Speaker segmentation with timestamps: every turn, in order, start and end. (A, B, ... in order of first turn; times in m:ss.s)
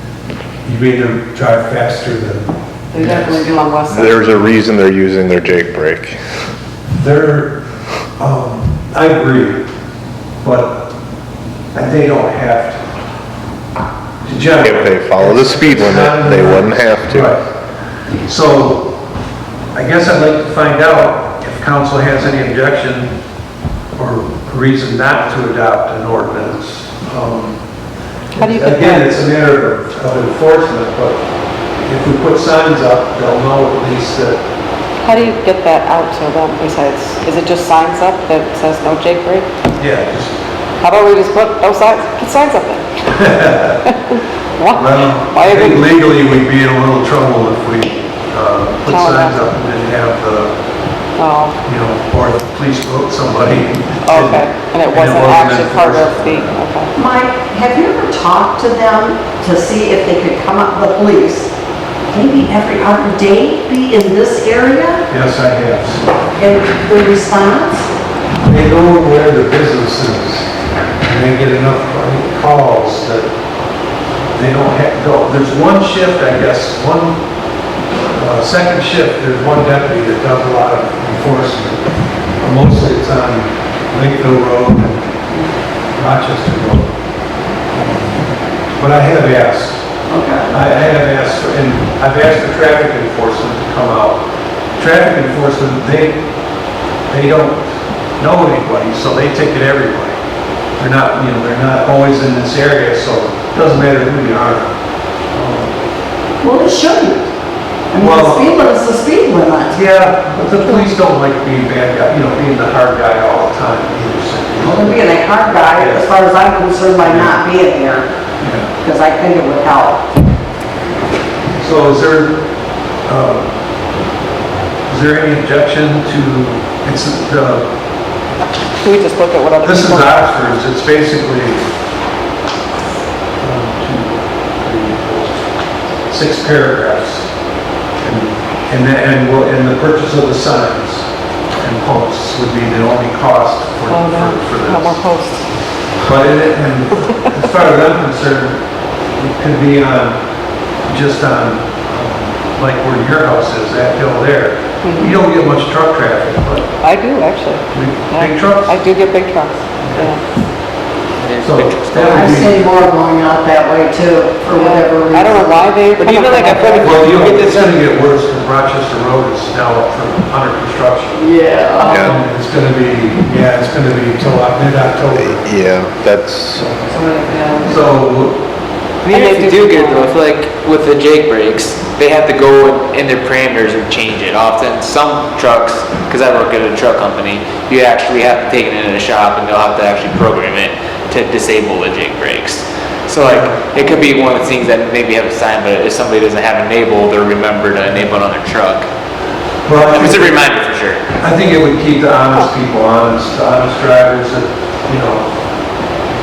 0:00.6-0:03.5 A
0:02.9-0:04.4 B
0:03.9-0:06.2 C
0:07.0-0:07.6 A
0:08.2-0:09.7 A
0:10.4-0:10.9 A
0:11.7-0:12.8 A
0:14.2-0:17.4 A
0:14.6-0:17.4 C
0:18.2-0:19.0 A
0:19.7-0:23.2 A
0:24.0-0:27.6 A
0:28.3-0:34.4 A
0:28.4-0:29.2 B
0:35.0-0:39.5 B
0:39.8-0:40.4 A
0:40.8-0:46.1 B
0:43.1-0:43.8 A
0:44.7-0:50.6 A
0:48.9-0:49.5 B
0:51.2-0:51.6 B
0:51.6-0:56.6 A
0:54.0-0:56.9 B
0:57.0-1:01.5 D
1:02.1-1:05.0 D
1:05.1-1:06.1 A
1:06.4-1:07.9 D
1:08.4-1:10.5 A
1:11.0-1:13.3 A
1:14.3-1:17.2 A
1:18.0-1:21.9 A
1:22.4-1:25.1 A
1:26.0-1:26.9 A
1:27.7-1:28.2 A
1:28.8-1:29.8 A
1:30.1-1:30.6 D
1:30.5-1:34.2 A
1:34.8-1:36.2 A
1:37.1-1:40.2 A
1:40.8-1:44.8 A
1:45.3-1:45.8 A
1:46.4-1:47.3 D
1:47.9-1:49.8 D
1:48.0-1:48.5 A
1:49.7-1:56.2 A
1:54.6-1:58.1 D
1:57.0-1:57.4 A
1:58.4-1:58.7 A
1:58.8-2:00.0 D
2:01.6-2:02.4 A
2:03.1-2:03.5 A
2:04.9-2:07.7 A
2:08.8-2:10.2 B
2:09.6-2:11.6 A
2:13.4-2:15.5 A
2:16.1-2:17.3 A
2:18.0-2:25.0 A
2:23.9-2:25.5 B
2:26.0-2:28.6 A
2:29.2-2:30.2 A
2:30.9-2:36.8 A
2:34.8-2:35.2 B
2:36.8-2:40.2 B
2:37.7-2:38.8 A
2:39.8-2:40.1 A
2:41.2-2:42.5 E
2:41.4-2:42.6 A
2:42.1-2:45.7 D
2:44.5-2:47.2 B
2:46.0-2:47.8 E
2:46.8-2:51.2 A
2:51.1-2:52.1 D
2:51.8-2:52.3 B
2:51.9-2:52.1 C
2:51.9-2:55.4 A
2:55.2-2:56.7 C
2:56.6-2:57.0 A
2:56.9-2:57.9 B
2:57.6-2:58.4 A
2:59.0-3:18.9 E
2:59.1-3:00.1 B
3:13.2-3:13.6 A
3:19.6-3:20.4 A
3:19.8-3:21.0 E
3:21.2-3:25.3 A